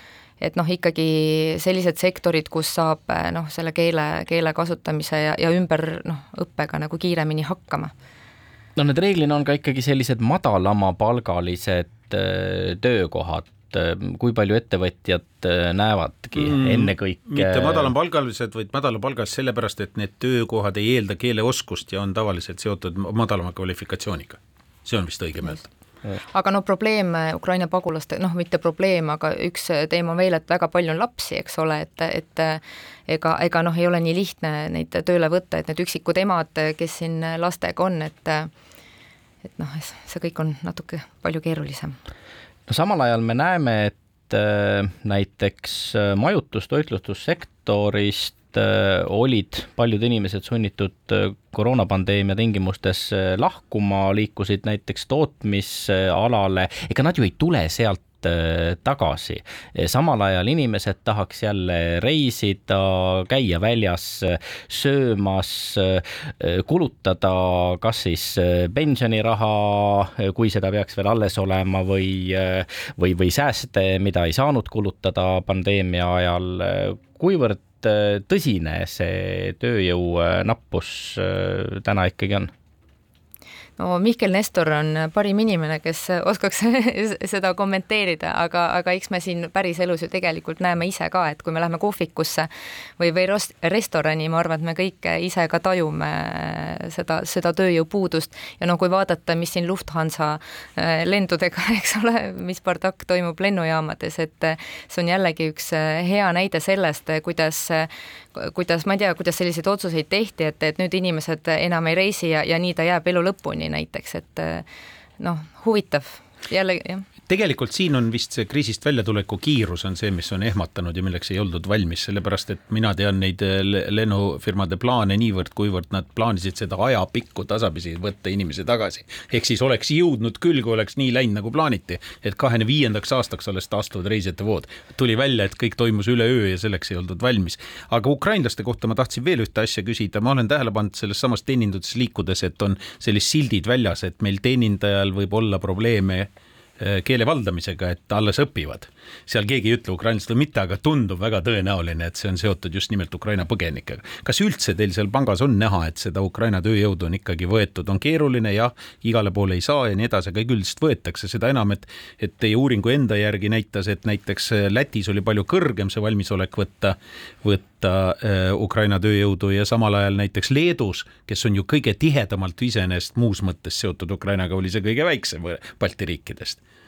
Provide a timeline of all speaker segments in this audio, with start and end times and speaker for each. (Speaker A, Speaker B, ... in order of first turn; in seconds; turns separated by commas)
Speaker A: 0.4-7.9, Speaker B: 8.8-17.9, Speaker C: 16.4-25.6, Speaker A: 26.3-38.5, Speaker A: 39.5-42.0, Speaker B: 42.7-82.5, Speaker A: 83.8-114.6, Speaker A: 115.2-117.0, Speaker C: 117.3-176.6